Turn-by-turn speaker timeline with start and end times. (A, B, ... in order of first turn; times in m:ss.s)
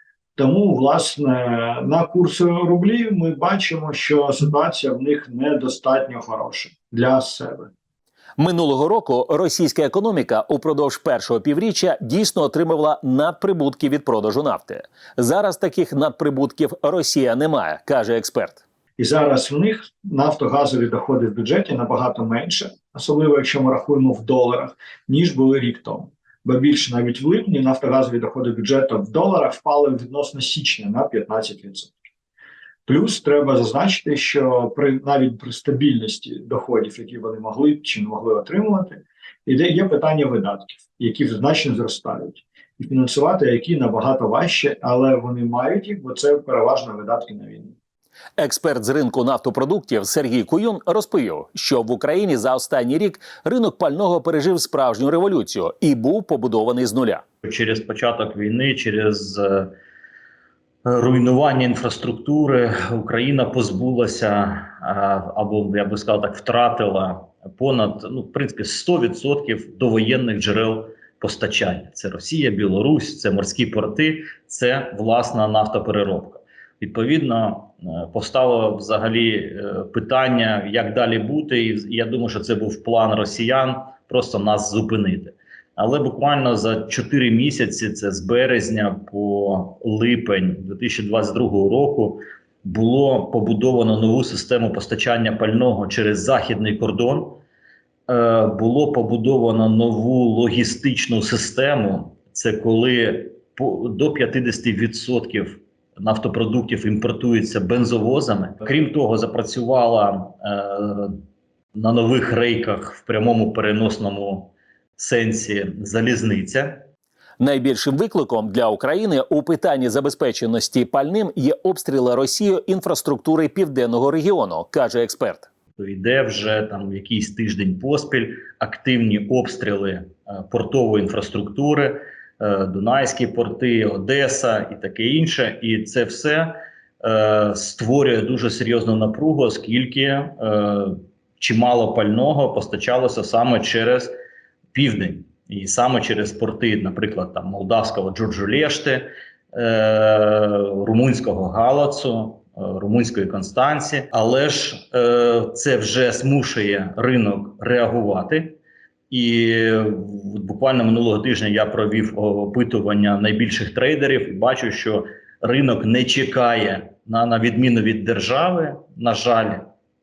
0:00.4-0:07.7 A
0:08.4-0:18.6 B
0:19.0-0:31.9 A
0:32.8-0:47.7 A
0:48.4-0:57.2 B
0:57.4-0:59.7 C
1:00.8-1:37.4 C
1:38.1-1:51.2 C
1:51.7-1:56.8 C
1:57.4-2:05.5 B
2:05.8-2:24.1 C
2:24.7-2:38.6 C
2:39.1-2:49.6 C